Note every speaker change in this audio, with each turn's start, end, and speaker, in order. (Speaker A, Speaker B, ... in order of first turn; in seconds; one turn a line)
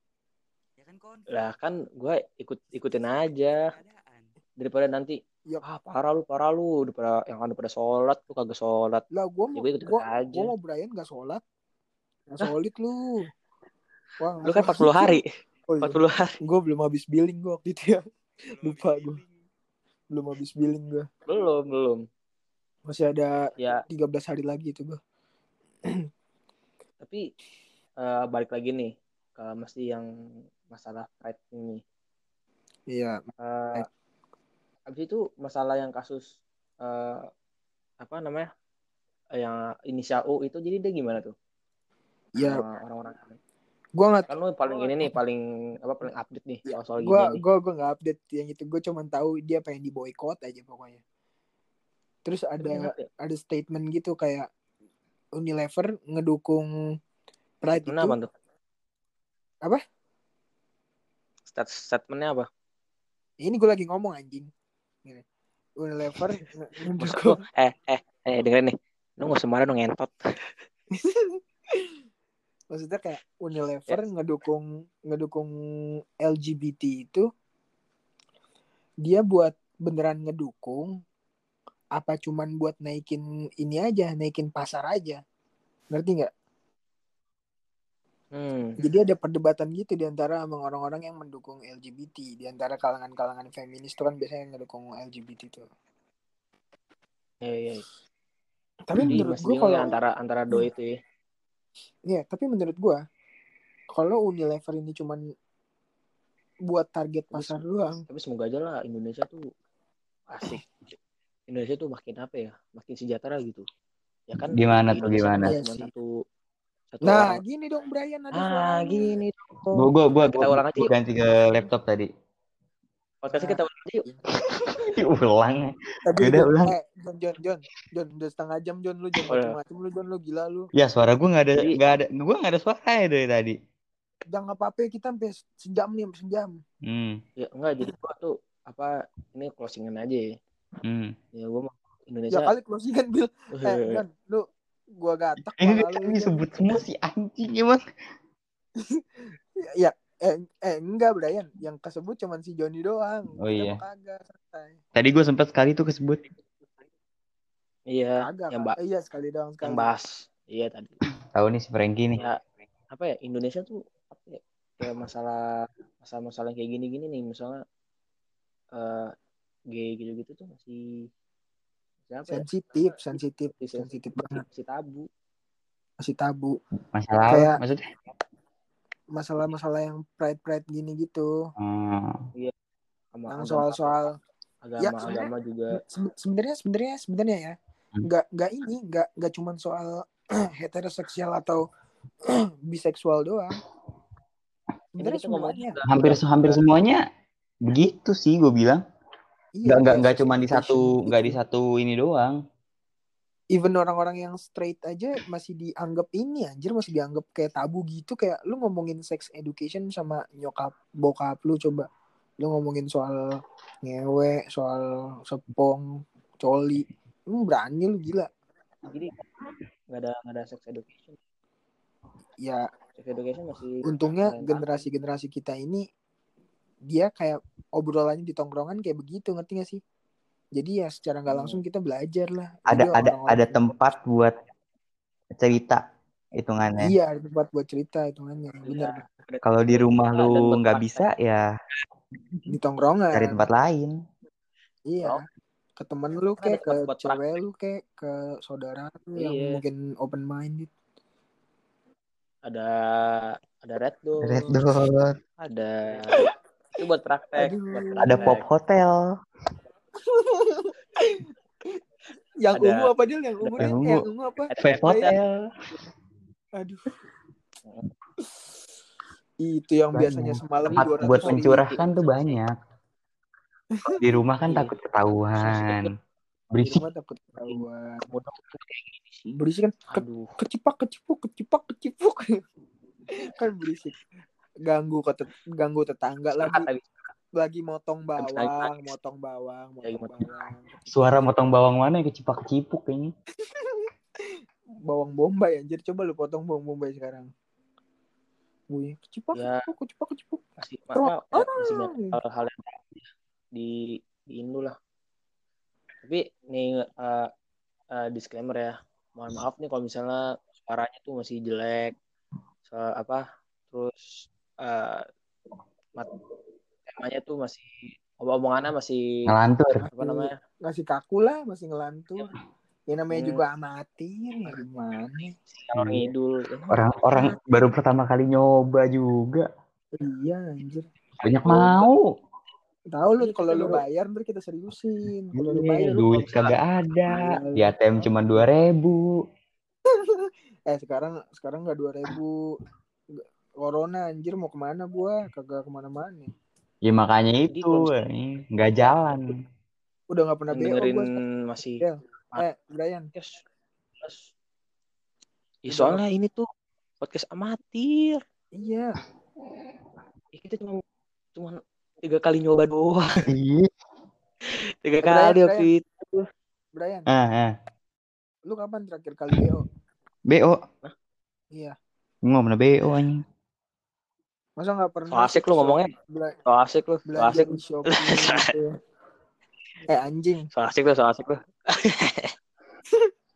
Speaker A: 0.8-1.5
Speaker B: 1.3-3.6
Speaker A: 2.8-4.3
Speaker B: 4.6-9.0
Speaker C: 9.1-11.4
Speaker B: 9.6-10.5
Speaker C: 12.3-13.3
Speaker C: 14.2-18.0
Speaker B: 14.4-15.2
Speaker B: 15.8-16.3
Speaker A: 18.4-19.3
Speaker C: 18.6-19.2
Speaker C: 20.1-21.1
Speaker B: 21.3-22.0
Speaker C: 22.9-25.0
Speaker B: 23.6-23.8
Speaker B: 28.0-30.1
Speaker B: 30.7-31.8
Speaker C: 32.9-33.9
Speaker B: 33.4-33.9
Speaker B: 34.9-37.2
Speaker B: 38.0-38.5
Speaker B: 39.4-41.3
Speaker C: 42.4-42.6
Speaker B: 42.4-43.4
Speaker C: 44.0-44.3
Speaker B: 44.3-47.4
Speaker C: 46.7-51.0
Speaker C: 52.2-54.5
Speaker B: 52.6-53.1
Speaker C: 55.4-56.7
Speaker C: 57.6-58.1
Speaker B: 57.8-58.3
Speaker B: 61.5-62.5
Speaker C: 63.4-64.5
Speaker C: 65.8-67.4
Speaker B: 67.0-70.1
Speaker C: 70.9-71.9
Speaker C: 72.7-75.5
Speaker C: 76.2-77.3
Speaker C: 79.0-80.9
Speaker C: 82.0-85.2
Speaker C: 85.9-86.3
Speaker B: 88.3-88.8
Speaker C: 88.8-95.7
Speaker B: 97.4-97.8
Speaker C: 98.9-100.0
Speaker B: 99.0-100.9
Speaker C: 102.0-103.0
Speaker C: 103.9-105.2
Speaker C: 106.7-108.0
Speaker B: 107.3-109.4
Speaker B: 110.3-110.6
Speaker B: 111.5-113.7
Speaker B: 114.3-116.1
Speaker D: 114.5-115.5
Speaker C: 115.4-115.9
Speaker B: 116.9-117.4
Speaker C: 117.0-119.1
Speaker B: 118.3-120.9
Speaker D: 119.8-122.1
Speaker B: 123.2-124.0
Speaker C: 123.3-124.2
Speaker D: 124.5-126.7
Speaker C: 126.0-130.7
Speaker B: 129.3-129.5
Speaker D: 130.7-133.6
Speaker C: 134.3-136.6
Speaker D: 136.8-137.2
Speaker B: 137.4-140.2
Speaker D: 140.8-141.1
Speaker B: 141.3-142.5
Speaker C: 142.3-144.5
Speaker B: 143.5-144.0
Speaker C: 145.0-146.8
Speaker D: 145.5-147.8
Speaker C: 148.9-154.8
Speaker D: 153.4-153.8
Speaker D: 154.9-156.2
Speaker B: 157.9-158.8
Speaker C: 158.2-159.9
Speaker B: 159.6-160.9
Speaker D: 161.3-162.2
Speaker B: 162.9-165.4
Speaker B: 166.0-167.6
Speaker B: 168.7-169.1
Speaker B: 169.7-171.1
Speaker B: 172.1-172.4
Speaker C: 172.3-174.4
Speaker B: 173.6-175.1
Speaker C: 176.0-176.6
Speaker D: 176.9-177.9
Speaker C: 177.2-177.6
Speaker C: 179.1-181.3
Speaker D: 181.6-182.2
Speaker B: 183.2-183.9
Speaker C: 183.3-184.1
Speaker B: 184.6-185.8
Speaker C: 184.8-190.0
Speaker C: 190.6-191.6
Speaker C: 192.3-193.6
Speaker B: 194.9-196.6
Speaker C: 195.0-195.8
Speaker D: 195.9-197.0
Speaker D: 197.6-198.8
Speaker C: 199.6-201.4
Speaker D: 199.6-202.4
Speaker C: 203.5-211.8
Speaker C: 212.4-218.3
Speaker B: 218.9-219.2
Speaker B: 219.9-221.2
Speaker C: 222.4-222.7
Speaker B: 223.0-224.8
Speaker C: 223.8-225.8
Speaker C: 226.9-229.8
Speaker C: 230.5-233.7
Speaker B: 231.3-231.6
Speaker D: 232.7-234.3
Speaker D: 235.4-235.8
Speaker D: 236.4-236.9
Speaker C: 236.8-239.0
Speaker B: 238.6-241.1
Speaker D: 239.4-241.4
Speaker C: 242.5-243.4
Speaker D: 243.1-243.9
Speaker C: 244.8-245.2
Speaker C: 245.8-250.7
Speaker B: 246.4-247.2
Speaker B: 249.2-249.6
Speaker B: 252.4-254.6
Speaker D: 254.2-255.2
Speaker B: 255.4-258.4
Speaker C: 257.4-258.4
Speaker D: 258.0-259.1
Speaker C: 260.0-261.3
Speaker C: 262.4-265.1
Speaker B: 262.5-263.7
Speaker D: 263.6-265.4
Speaker B: 264.5-265.1
Speaker C: 266.6-266.9
Speaker C: 269.4-271.8
Speaker D: 269.9-272.5
Speaker B: 270.6-272.4
Speaker C: 273.7-274.0
Speaker D: 273.9-275.9
Speaker B: 274.5-274.7
Speaker B: 275.4-275.9
Speaker D: 276.5-276.8
Speaker C: 276.7-278.0
Speaker B: 277.5-279.4
Speaker C: 279.4-282.3
Speaker B: 279.9-280.3
Speaker C: 283.3-283.9
Speaker C: 284.6-286.7
Speaker B: 286.4-287.1
Speaker C: 287.3-291.0
Speaker B: 288.2-288.9
Speaker B: 289.8-290.5
Speaker D: 290.9-293.1
Speaker C: 293.4-297.3
Speaker C: 298.7-300.4
Speaker B: 299.3-299.7
Speaker B: 300.6-304.7
Speaker C: 300.9-302.1
Speaker B: 306.0-307.3
Speaker B: 307.9-311.9
Speaker B: 312.6-315.0
Speaker B: 316.9-319.0
Speaker D: 319.3-319.8
Speaker C: 319.8-322.3
Speaker B: 319.9-320.3
Speaker C: 322.9-325.3
Speaker B: 323.1-323.4
Speaker B: 325.4-327.3
Speaker D: 325.7-326.1
Speaker D: 326.7-329.5
Speaker C: 329.9-330.9
Speaker B: 331.1-331.9
Speaker D: 331.2-332.1
Speaker C: 332.9-335.9
Speaker B: 333.2-333.8
Speaker D: 335.4-339.1
Speaker B: 335.5-336.6
Speaker C: 337.1-337.7
Speaker C: 340.1-342.3
Speaker C: 343.1-346.3
Speaker D: 346.8-349.4
Speaker B: 347.5-347.9
Speaker C: 350.1-351.2
Speaker B: 350.5-352.4
Speaker C: 351.8-353.1
Speaker B: 353.1-353.4
Speaker B: 354.0-354.3
Speaker B: 355.6-356.4
Speaker C: 355.7-356.0
Speaker B: 357.0-358.2
Speaker C: 358.6-359.0
Speaker B: 360.3-360.8
Speaker B: 361.3-363.1
Speaker D: 363.3-363.7
Speaker B: 364.8-366.3
Speaker C: 365.0-365.7
Speaker C: 366.7-367.1
Speaker D: 367.1-367.5
Speaker C: 368.4-369.6
Speaker D: 370.3-370.6
Speaker D: 372.2-373.2
Speaker C: 374.6-376.3
Speaker B: 375.1-375.9
Speaker B: 376.4-378.5
Speaker C: 377.1-378.7
Speaker C: 379.9-380.5
Speaker B: 380.5-382.3